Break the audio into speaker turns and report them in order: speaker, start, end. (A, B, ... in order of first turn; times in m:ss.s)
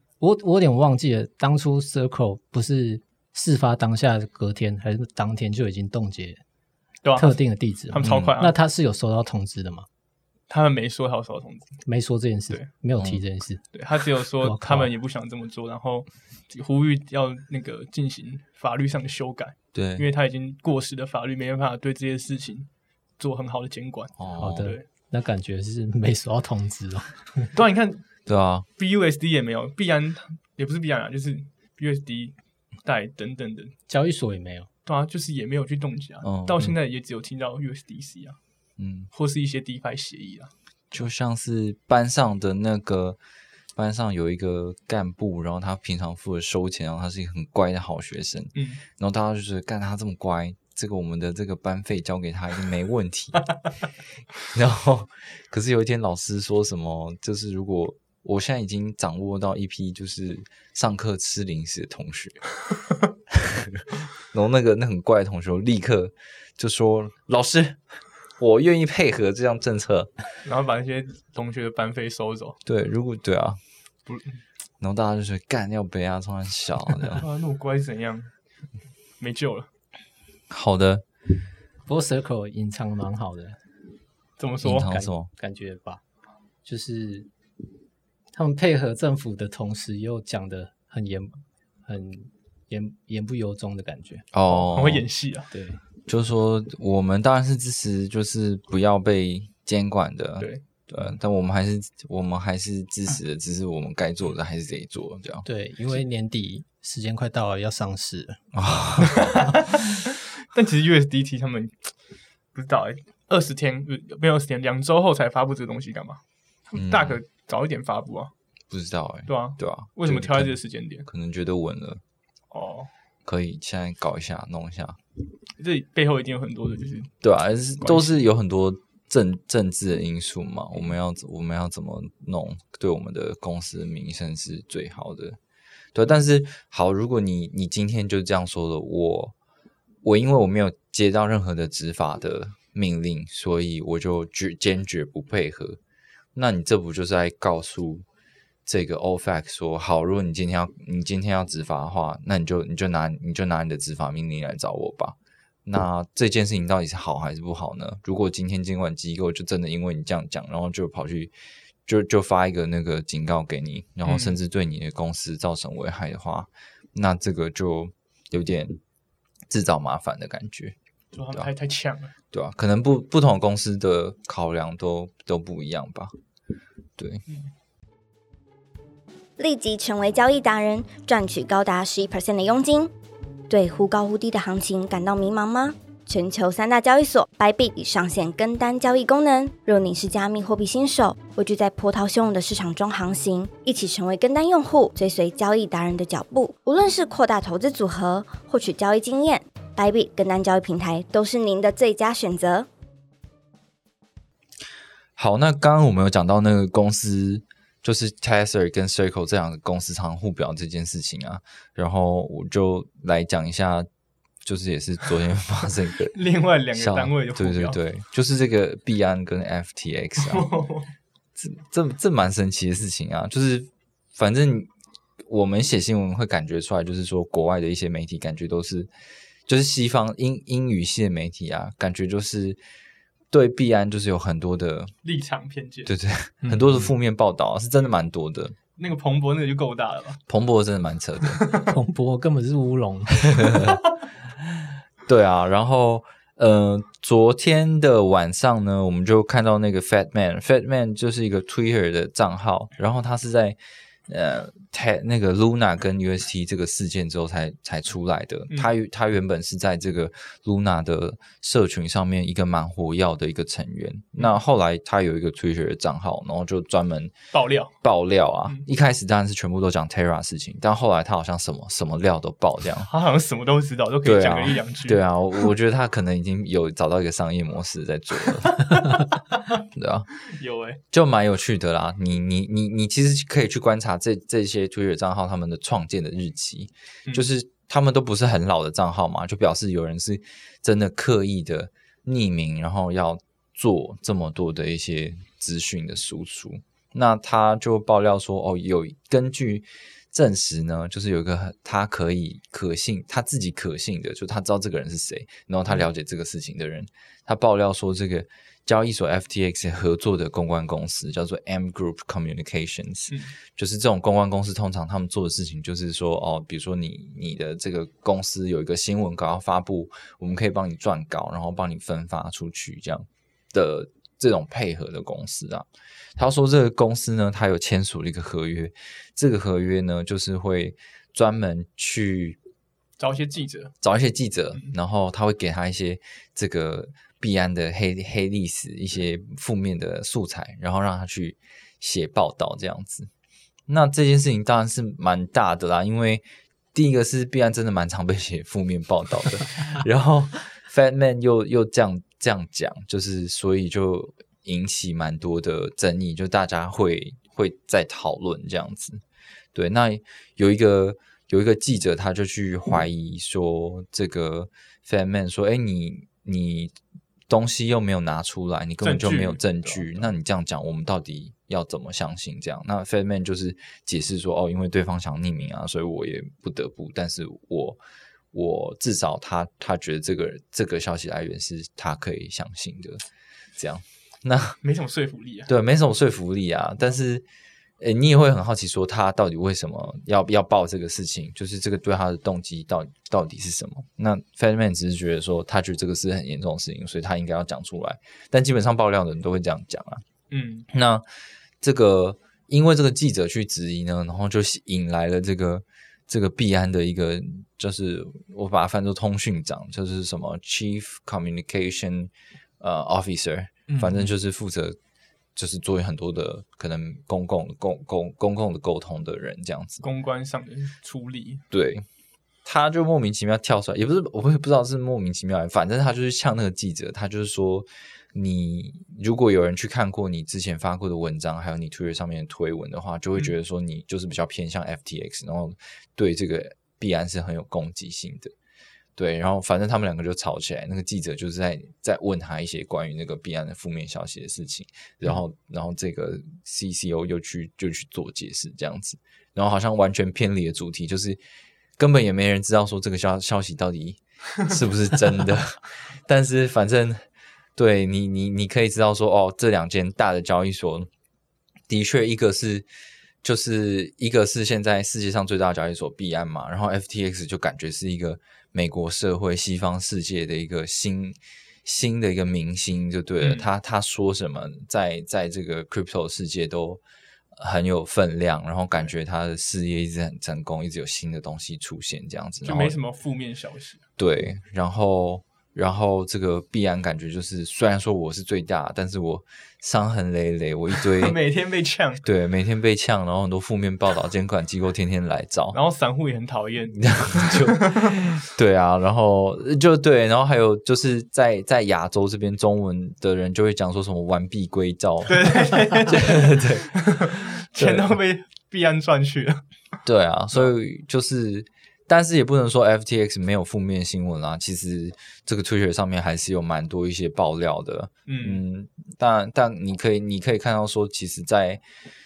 0:00.2-0:06.4 A
0:07.0-0:08.5 B
0:07.2-0:09.9 A
0:08.0-0:08.4 C
0:10.5-0:11.8 B
0:11.9-0:13.6 A
0:13.7-0:24.8 B
0:14.4-0:14.9 A
0:19.7-0:20.1 C
0:24.2-0:24.7 C
0:24.4-0:27.5 A
0:27.5-0:28.0 B
0:28.3-0:28.7 C
0:28.8-0:33.7 B
0:33.9-0:34.7 A
0:34.9-0:38.4 B
0:36.2-0:36.7 C
0:38.8-0:39.1 C
0:39.1-0:40.5 B
0:40.9-0:43.2 C
0:43.7-0:53.5 C
0:48.5-0:48.8 B
0:54.5-1:02.4 C
1:03.3-1:07.8 C
1:08.4-1:10.1 C
1:10.4-1:12.6 B
1:12.6-1:13.6 C
1:14.1-1:14.4 B
1:14.8-1:17.2 C
1:17.1-1:18.3 B
1:19.2-1:19.7 B
1:20.5-1:21.0 C
1:21.9-1:23.6 A
1:24.4-1:24.9 B
1:24.6-1:25.3 C
1:24.8-1:26.0 A
1:26.6-1:27.3 A
1:28.3-1:34.2 A
1:34.3-1:35.1 C
1:34.5-1:35.5 B
1:35.5-1:35.8 A
1:36.1-1:45.4 C
1:45.4-1:48.4 A
1:48.5-1:49.3 C
1:49.0-1:51.9 B
1:52.5-1:58.3 B
1:56.7-1:57.2 C
1:58.7-2:02.0 C
1:59.3-2:01.1 B
2:02.5-2:02.9 B
2:03.2-2:05.0 C
2:05.6-2:07.2 B
2:07.2-2:15.4 C
2:07.8-2:08.2 B
2:15.9-2:19.4 C
2:20.0-2:25.8 C
2:26.4-2:28.1 C
2:28.6-2:41.3 C
2:41.9-2:48.8 C
2:44.0-2:44.4 B
2:49.5-2:50.7 C
2:51.1-2:52.1 B
2:52.3-2:56.1 C
2:57.0-2:57.2 C
2:59.4-3:02.9 D
3:03.5-3:22.7 D
3:25.2-3:33.9 C
3:34.4-3:36.1 C
3:36.1-3:37.8 B
3:36.7-3:40.5 C
3:40.2-3:40.9 B
3:41.4-3:44.7 C
3:45.2-3:48.9 C
3:49.5-3:52.6 C
3:53.3-3:54.9 C
3:55.0-3:56.8 B
3:55.9-3:58.6 C
3:58.8-4:00.2 B
4:00.3-4:01.5 C
4:01.3-4:01.7 B
4:01.7-4:03.7 A
4:03.3-4:03.8 C
4:04.4-4:27.1 C
4:27.3-4:27.7 B
4:27.8-4:32.9 C
4:32.9-4:35.4 B
4:34.0-4:39.0 C
4:38.5-4:39.0 B
4:39.7-4:40.1 C
4:40.2-4:40.8 B
4:40.9-5:32.4 C
5:33.0-5:33.7 B
5:33.8-5:43.1 C
5:43.7-5:59.0 C
5:59.5-6:06.7 C
6:07.3-6:17.8 C
6:08.8-6:10.1 B
6:18.3-6:23.0 C
6:23.6-6:24.6 C
6:24.6-6:25.5 B
6:25.5-6:27.2 C
6:27.8-6:40.0 C
6:40.3-6:40.7 B
6:40.7-6:41.0 C
6:41.6-6:54.8 C
6:53.7-6:54.1 B
6:55.4-6:59.8 C
6:59.8-7:01.4 B
7:01.5-7:01.9 C
7:02.4-7:18.3 C
7:19.0-7:31.2 C
7:31.8-7:37.0 C
7:37.6-7:40.9 C
7:41.7-7:42.7 C
7:43.2-7:56.8 C
7:53.2-7:53.5 B
7:57.4-8:02.8 C
8:02.4-8:03.8 B
8:04.0-8:11.2 C
8:10.8-8:12.0 B
8:12.0-8:15.6 C
8:15.5-8:18.1 B
8:16.7-8:27.9 C
8:25.1-8:29.4 B
8:29.9-8:41.6 C
8:38.1-8:38.4 B